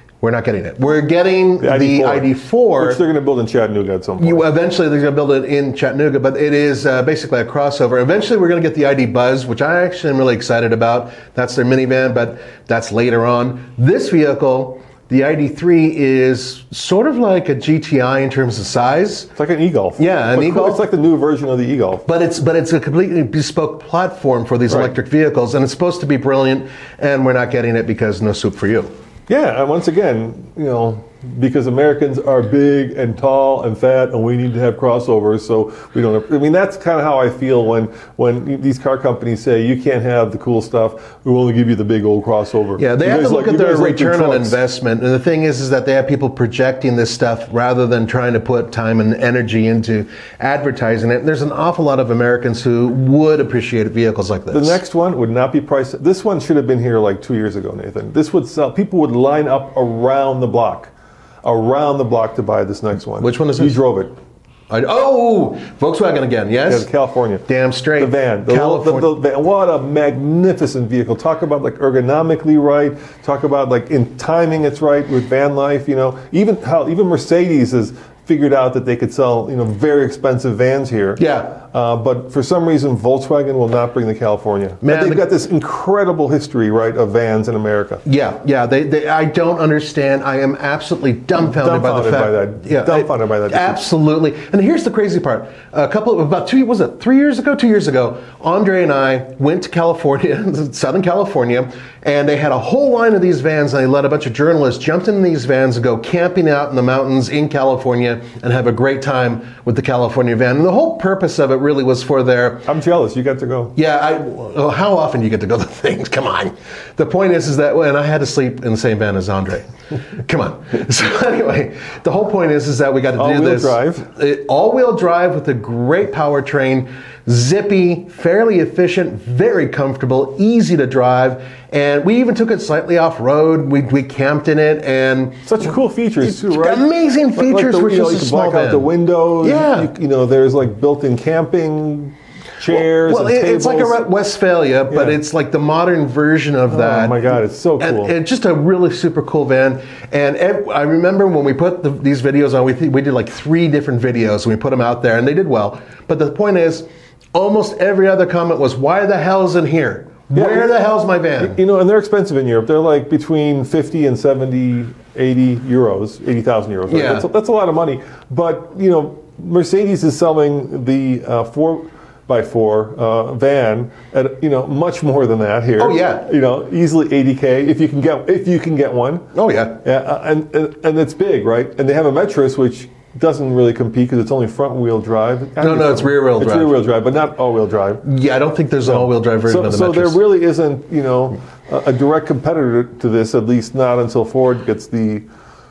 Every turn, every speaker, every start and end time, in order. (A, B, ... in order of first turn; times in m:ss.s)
0:00.2-0:03.0 A
0:01.6-0:04.4 B
0:04.2-0:19.3 A
0:19.4-0:22.0 B
0:20.0-0:20.8 A
0:22.1-0:28.9 A
0:29.3-0:44.6 B
0:42.8-0:54.8 A
0:54.5-1:00.9 B
1:01.4-1:04.2 B
1:03.2-1:03.8 A
1:04.7-1:06.9 A
1:06.7-1:07.5 B
1:07.5-1:09.1 A
1:08.0-1:28.0 B
1:21.2-1:21.6 A
1:24.8-1:25.3 A
1:28.0-1:52.7 A
1:31.4-1:33.8 B
1:52.7-1:53.8 B
1:53.8-2:15.7 A
2:03.2-2:04.1 B
2:15.4-2:24.0 B
2:16.2-2:19.9 A
2:22.7-2:41.6 A
2:24.9-2:25.2 B
2:26.7-2:28.1 B
2:40.3-2:40.7 B
2:41.4-2:59.3 B
2:46.9-2:47.3 A
2:55.8-2:56.3 A
2:59.3-2:59.8 A
2:59.8-3:08.0 B
3:05.6-3:06.8 A
3:08.0-3:10.2 A
3:08.9-3:15.2 B